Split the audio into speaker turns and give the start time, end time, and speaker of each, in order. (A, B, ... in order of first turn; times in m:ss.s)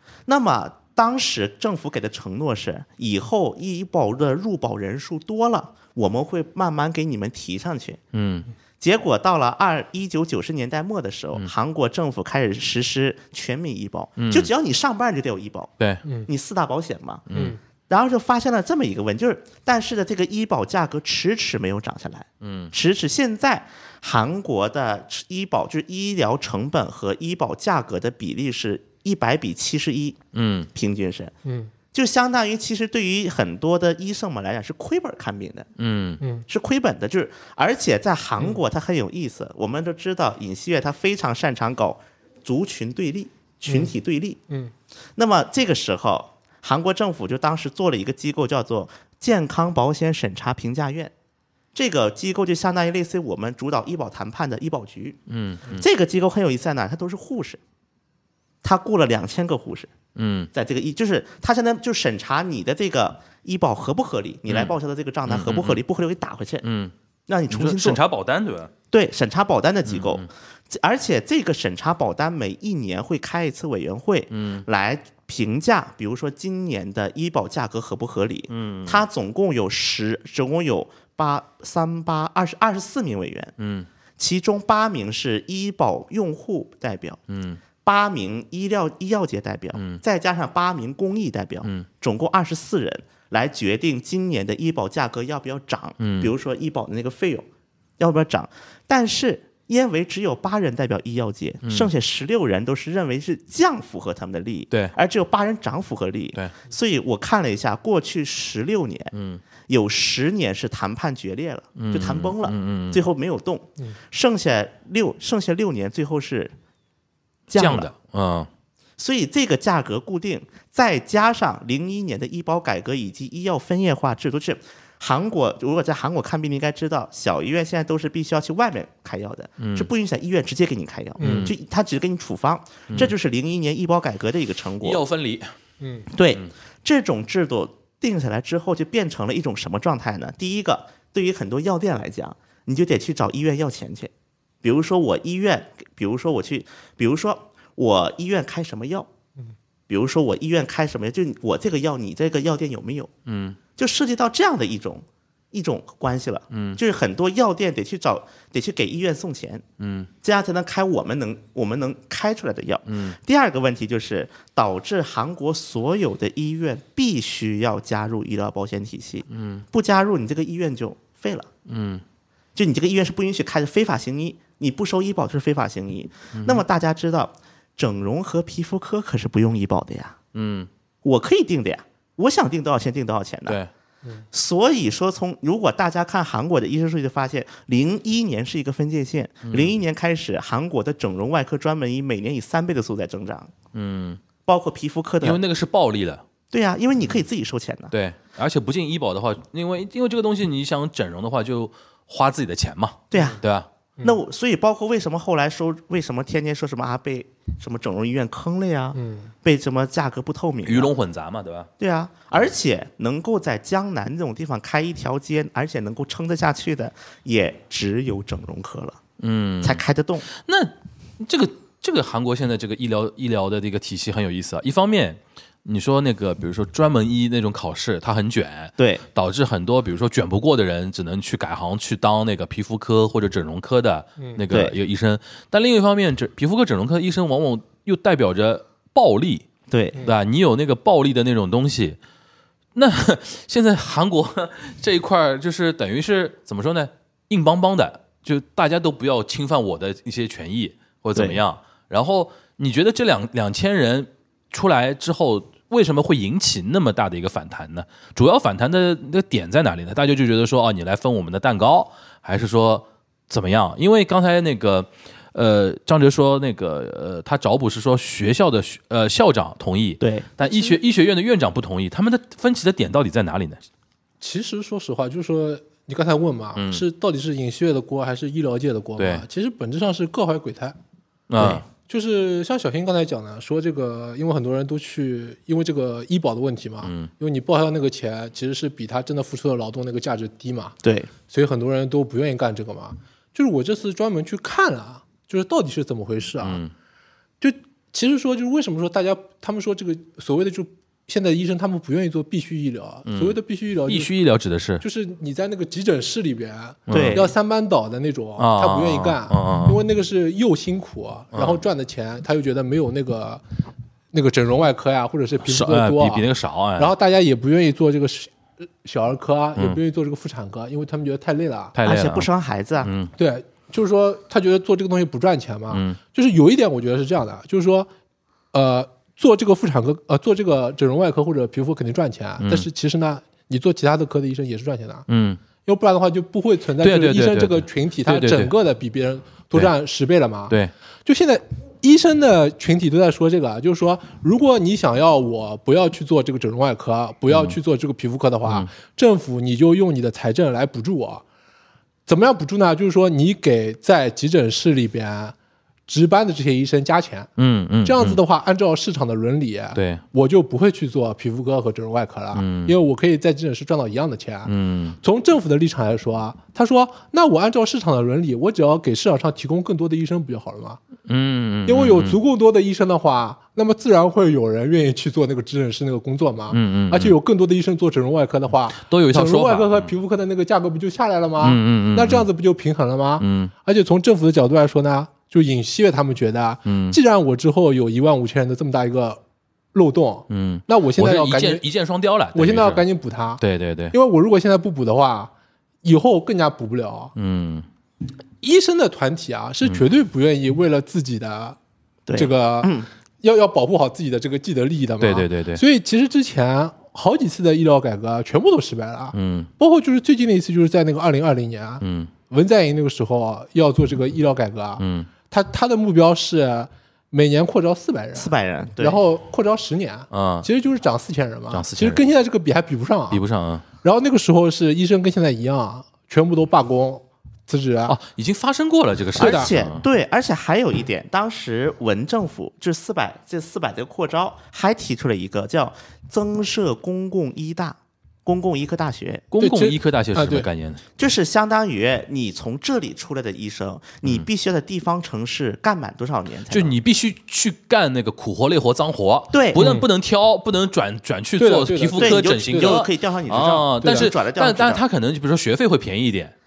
0:00.3-0:08.0 A
0:08.1-0:08.5 B
0:08.8-0:15.7 A
0:14.2-0:14.5 B
0:16.2-0:17.3 A
0:17.3-0:17.5 B
0:17.3-0:17.6 C
0:17.9-0:30.2 A
0:22.4-0:22.7 B
0:30.3-0:30.7 B
0:30.7-0:31.3 A
0:31.4-0:31.7 C
0:31.9-0:35.7 A
0:35.8-0:36.2 B
0:36.5-0:44.4 A
0:45.2-0:51.1 A
0:51.7-0:55.2 A
0:55.3-0:55.8 B
0:55.7-0:57.6 A
0:58.6-0:59.9 A
1:00.2-1:00.5 B
1:00.5-1:06.6 A
1:04.5-1:04.7 B
1:05.3-1:05.8 B
1:06.6-1:06.9 B
1:07.3-1:08.0 A
1:07.5-1:08.7 B
1:08.9-1:23.5 A
1:09.8-1:10.3 B
1:14.3-1:14.6 B
1:18.5-1:19.0 B
1:23.6-1:23.9 B
1:24.2-1:27.2 A
1:27.3-1:27.6 B
1:27.8-1:37.5 A
1:29.7-1:30.0 B
1:36.0-1:36.3 B
1:38.0-1:49.1 A
1:41.6-1:41.9 B
1:49.1-1:49.4 B
1:49.7-1:56.5 A
1:51.8-1:53.0 B
1:57.5-1:57.9 A
1:57.5-1:58.5 B
1:59.0-2:15.0 A
2:09.6-2:09.9 B
2:11.2-2:11.5 C
2:11.2-2:11.5 B
2:14.8-2:15.5 B
2:15.8-2:16.1 C
2:16.1-2:24.1 A
2:24.6-2:29.1 A
2:29.9-2:33.1 A
2:33.2-2:33.6 B
2:33.8-2:39.6 A
2:36.5-2:36.8 B
2:39.8-2:40.1 B
2:40.2-2:51.5 A
2:42.9-2:43.2 B
2:49.3-2:49.6 B
2:51.7-2:52.0 B
2:52.5-3:00.2 A
2:56.3-2:56.6 B
3:00.3-3:00.7 B
3:01.0-3:03.6 A
3:04.3-3:13.5 A
3:09.4-3:09.7 B
3:13.7-3:14.2 B
3:14.4-3:15.4 A
3:15.2-3:16.2 B
3:16.5-3:17.9 A
3:17.9-3:23.7 B
3:23.1-3:23.4 A
3:24.0-3:30.9 A
3:28.9-3:29.3 C
3:30.6-3:31.7 B
3:31.8-3:39.0 A
3:39.2-3:59.5 B
3:39.6-3:40.2 A
3:48.8-3:49.0 A
3:54.5-3:54.8 A
3:59.7-4:00.0 A
4:00.0-4:02.0 B
4:02.7-4:33.6 B
4:11.1-4:11.4 A
4:30.0-4:30.7 A
4:34.2-4:40.8 C
4:36.6-4:36.8 B
4:39.0-4:39.2 B
4:41.3-4:41.6 B
4:41.4-4:50.8 C
4:46.8-4:47.1 B
4:50.8-4:51.1 A
4:51.3-4:56.6 C
4:56.4-4:56.7 B
4:57.4-5:04.1 C
5:03.1-5:04.8 B
5:04.8-5:13.4 C
5:06.9-5:07.2 B
5:06.9-5:07.3 A
5:08.4-5:09.8 B
5:11.3-5:11.6 B
5:14.1-5:21.7 C
5:15.4-5:16.9 B
5:21.7-5:22.3 B
5:21.8-5:22.9 A
5:22.8-5:23.1 B
5:23.2-5:27.9 C
5:25.7-5:26.0 B
5:28.5-5:35.0 C
5:32.4-5:32.7 B
5:35.1-5:35.4 B
5:35.6-5:40.5 C
5:36.8-5:38.5 B
5:41.0-5:51.2 C
5:47.3-5:47.6 B
5:52.1-5:55.3 C
5:55.9-5:57.3 C
5:57.4-5:58.2 B
5:57.8-6:10.8 C
5:59.7-6:00.0 B
6:02.3-6:02.7 B
6:04.4-6:05.0 B
6:11.1-6:12.2 B
6:11.6-6:29.2 C
6:16.5-6:17.1 B
6:18.7-6:19.9 B
6:21.4-6:22.3 B
6:23.2-6:23.5 B
6:26.6-6:27.0 B
6:29.7-6:31.6 C
6:30.3-6:32.8 B
6:32.3-6:35.3 C
6:33.4-6:33.9 B
6:35.8-6:37.1 C
6:37.2-6:37.6 B
6:38.4-6:41.6 C
6:42.0-6:42.9 A
6:42.2-7:03.2 C
6:45.0-6:45.6 B
6:49.1-6:49.5 B
6:51.8-6:52.1 B
6:54.8-6:55.1 B
6:58.1-6:59.0 A
7:00.1-7:00.5 B
7:01.5-7:02.0 B
7:03.1-7:03.6 B
7:03.8-7:08.0 C
7:07.9-7:09.8 B
7:09.2-7:19.2 A
7:09.2-7:09.5 C
7:19.3-7:20.8 B
7:19.4-7:20.5 C
7:21.0-7:26.8 A
7:26.5-7:36.3 B
7:29.3-7:29.6 A
7:29.6-7:29.8 C
7:31.4-7:32.8 C
7:32.0-7:34.8 A
7:33.8-7:34.1 C